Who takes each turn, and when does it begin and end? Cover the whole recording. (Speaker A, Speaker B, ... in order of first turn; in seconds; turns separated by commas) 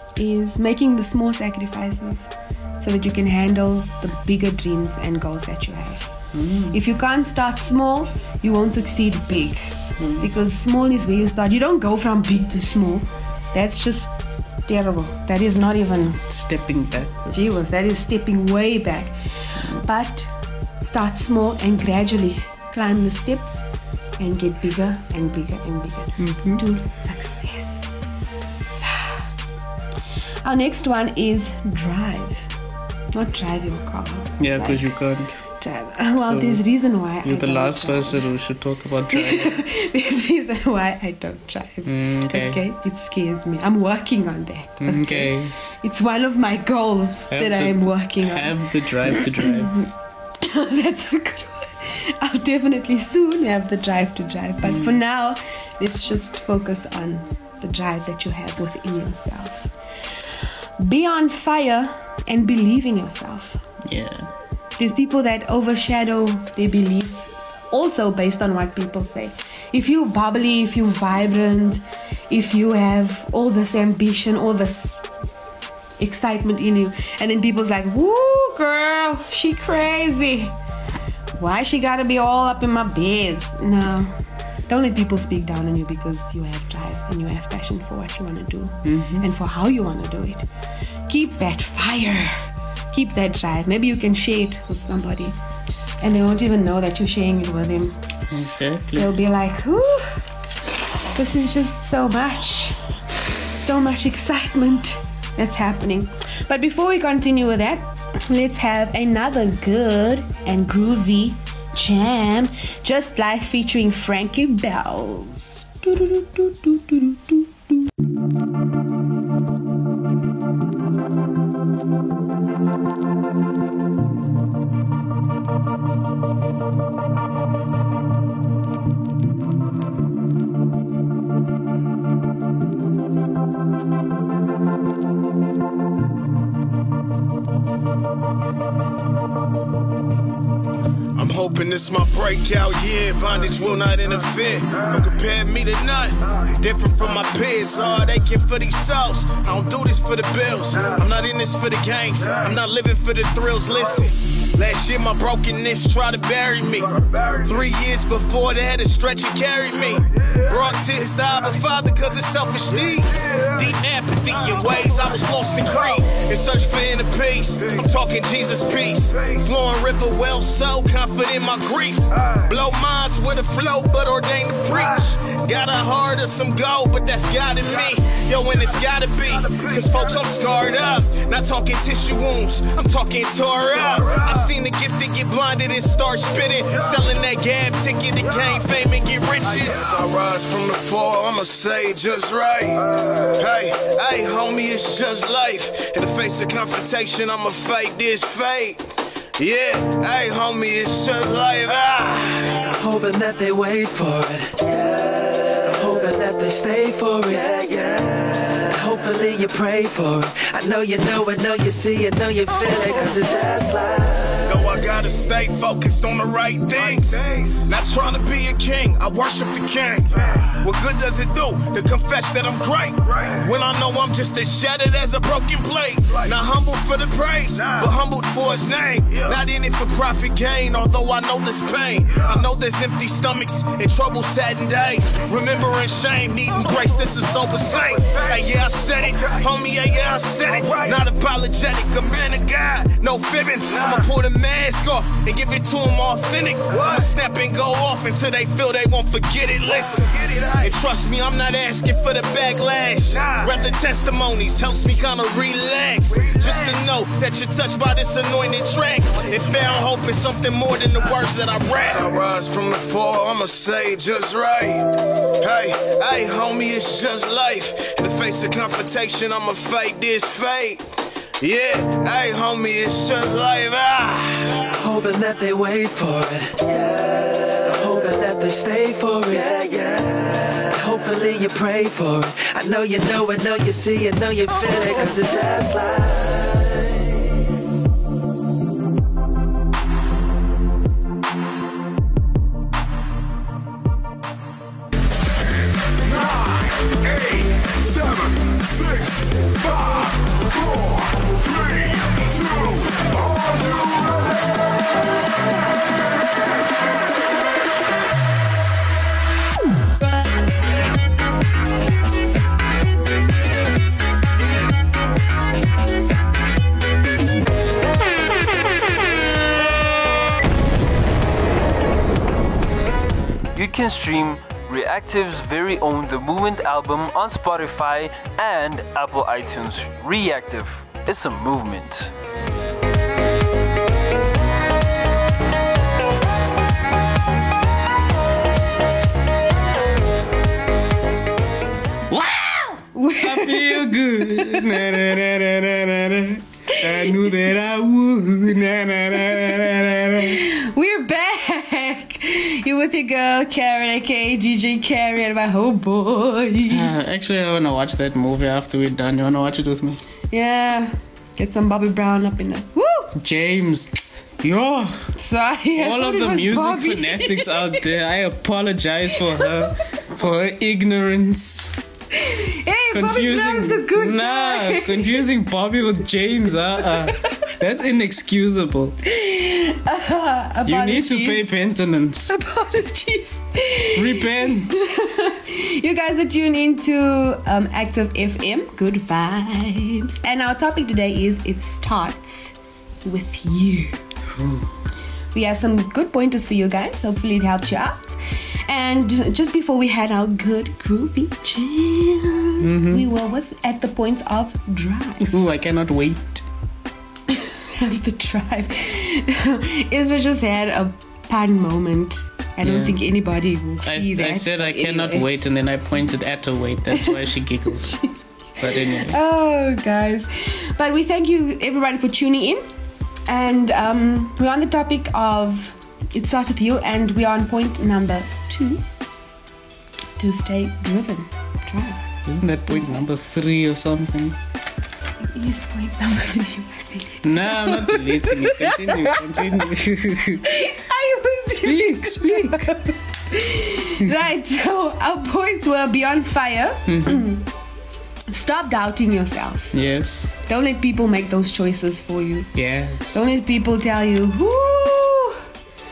Speaker A: 0.2-6.1, Speaker B: 6.3-6.8, Speaker A: 6.7-14.1, Speaker B: 10.0-10.3, Speaker A: 14.7-16.2, Speaker B: 16.2-17.6, Speaker A: 17.3-19.1, Speaker A: 19.7-23.6, Speaker A: 24.2-27.9, Speaker B: 26.2-26.6, Speaker A: 28.8-29.1, Speaker A: 30.4-32.5, Speaker A: 33.1-38.3, Speaker B: 34.4-35.4, Speaker B: 36.2-36.6, Speaker B: 37.2-39.6, Speaker A: 39.1-49.9, Speaker B: 41.9-42.6, Speaker B: 44.8-45.5, Speaker B: 47.3-49.8, Speaker A: 50.4-59.7, Speaker B: 54.6-55.0, Speaker A: 60.8-63.6, Speaker B: 63.9-64.3, Speaker A: 64.8-75.0, Speaker A: 76.0-80.5, Speaker A: 81.4-84.1, Speaker A: 84.7-90.5, Speaker B: 88.8-89.3, Speaker A: 91.1-95.4, Speaker A: 96.0-98.0, Speaker B: 98.3-99.2, Speaker A: 99.0-100.2, Speaker A: 101.1-102.8, Speaker A: 103.5-117.5, Speaker C: 141.2-202.6, Speaker D: 202.6-214.6, Speaker C: 214.5-270.9, Speaker C: 271.4-274.7, Speaker D: 274.7-287.2, Speaker E: 323.6-332.1, Speaker B: 342.1-350.4, Speaker A: 342.9-345.0, Speaker A: 346.7-347.3, Speaker A: 350.1-356.9, Speaker B: 356.7-360.0, Speaker A: 360.3-363.1, Speaker B: 363.2-365.1, Speaker A: 365.1-367.7, Speaker B: 365.8-371.8, Speaker A: 372.1-375.3, Speaker B: 372.9-379.0, Speaker A: 379.0-381.5, Speaker B: 380.6-382.3, Speaker A: 382.3-392.5, Speaker B: 383.9-384.9, Speaker A: 393.1-394.0, Speaker B: 394.4-394.7, Speaker A: 395.3-405.3, Speaker B: 402.6-403.1, Speaker B: 405.2-406.5, Speaker A: 407.3-415.3, Speaker B: 412.6-413.0, Speaker B: 413.8-418.0, Speaker B: 418.6-419.2, Speaker A: 418.8-422.6, Speaker A: 423.3-428.8, Speaker A: 430.2-432.1, Speaker B: 432.2-434.4, Speaker A: 432.7-433.0, Speaker A: 435.2-439.6, Speaker B: 437.2-440.6, Speaker A: 440.4-447.5, Speaker B: 441.5-442.8, Speaker B: 446.9-447.3, Speaker A: 448.3-449.8, Speaker B: 449.7-450.3, Speaker A: 450.5-452.5, Speaker B: 452.6-453.2, Speaker A: 453.1-455.4